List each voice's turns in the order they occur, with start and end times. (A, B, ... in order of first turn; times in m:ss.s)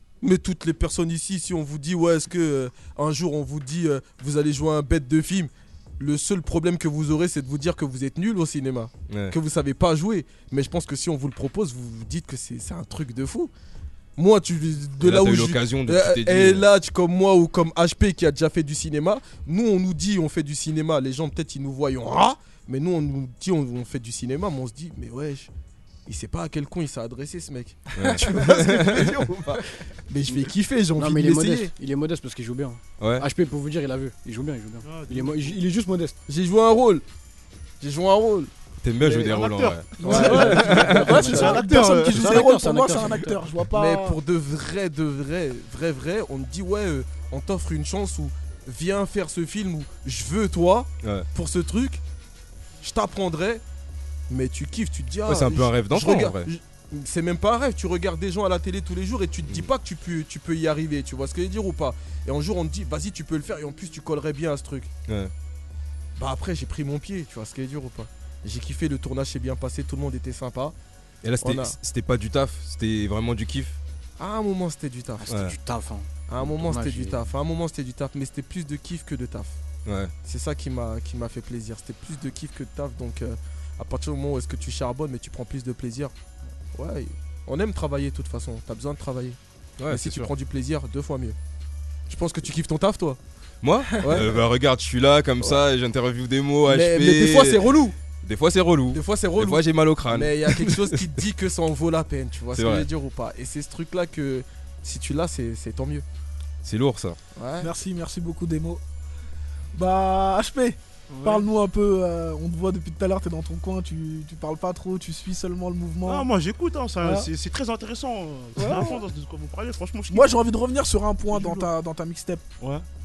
0:00.2-0:13.5 A
0:09.1-0:09.4 B
0:14.2-0:25.5 A
0:15.0-0:16.7 B
0:26.1-0:31.7 A
0:28.0-0:29.3 B
0:31.0-0:36.2 C
0:33.0-0:33.3 B
0:34.8-0:35.6 D
0:36.3-0:37.0 A
0:37.8-0:38.5 A
0:38.8-0:41.2 B
0:39.0-0:42.4 D
0:40.0-0:44.2 E
0:40.0-0:41.7 A
0:40.1-0:43.5 C
0:43.7-0:52.0 A
0:51.0-0:51.3 B
0:52.8-0:53.6 A
0:54.3-1:04.9 A
0:55.2-0:56.5 B
0:59.5-0:59.7 B
1:05.1-1:05.3 B
1:06.2-1:10.8 A
1:11.2-1:13.8 B
1:11.4-1:11.8 A
1:14.2-1:15.5 A
1:15.2-1:17.2 C
1:15.3-1:15.6 B
1:16.3-1:19.6 A
1:19.8-1:20.1 B
1:20.2-1:26.1 A
1:26.8-1:31.4 A
1:29.8-1:30.3 B
1:32.1-1:33.2 A
1:33.6-1:41.2 B
1:34.0-1:34.5 A
1:36.7-1:38.0 A
1:38.9-1:46.0 A
1:42.5-1:42.9 B
1:46.6-1:47.2 B
1:47.4-1:47.7 A
1:47.6-1:48.8 E
1:49.8-1:56.3 E
1:51.1-1:51.5 D
1:56.0-2:00.4 D
1:57.0-1:57.3 E
1:58.6-1:59.0 E
2:00.1-2:02.4 E
2:01.3-2:01.7 D
2:02.6-2:02.9 D